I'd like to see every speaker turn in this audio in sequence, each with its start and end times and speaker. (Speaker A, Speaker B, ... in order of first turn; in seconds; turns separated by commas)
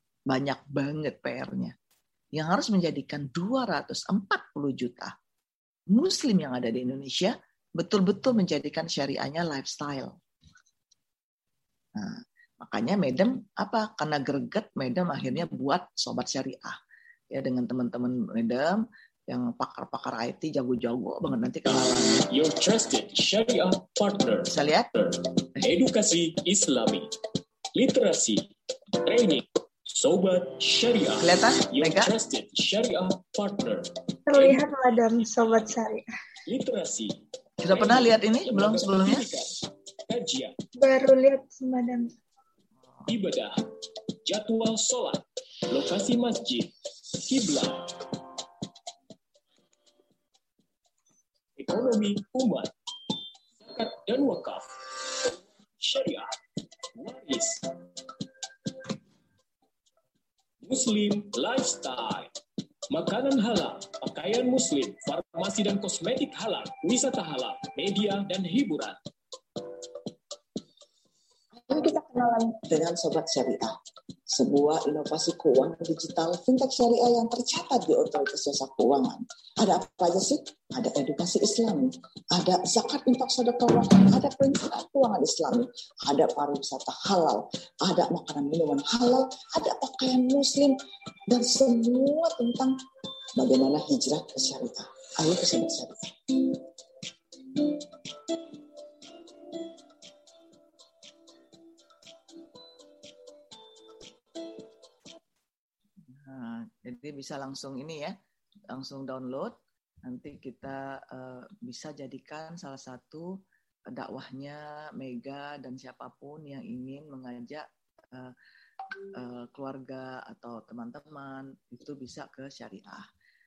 Speaker A: 0.3-1.7, Speaker A: 2.4-5.1, Speaker A: 5.9-10.2, Speaker A: 11.9-16.8, Speaker A: 17.3-22.2, Speaker B: 21.9-27.1, Speaker A: 24.5-24.9, Speaker B: 27.7-28.5, Speaker B: 29.0-34.6, Speaker A: 31.2-32.1, Speaker C: 34.3-36.0, Speaker B: 36.5-37.2, Speaker A: 37.6-39.3, Speaker B: 37.7-40.6, Speaker C: 40.8-42.1, Speaker B: 43.1-43.6, Speaker B: 44.2-47.9, Speaker B: 51.6-52.7, Speaker B: 53.6-56.3, Speaker B: 56.9-57.7, Speaker B: 60.6-62.3, Speaker B: 62.9-69.0, Speaker A: 71.7-73.8, Speaker A: 74.3-90.8, Speaker A: 91.3-92.8, Speaker A: 93.4-96.7, Speaker A: 106.2-108.1, Speaker A: 108.7-118.3, Speaker A: 119.2-123.1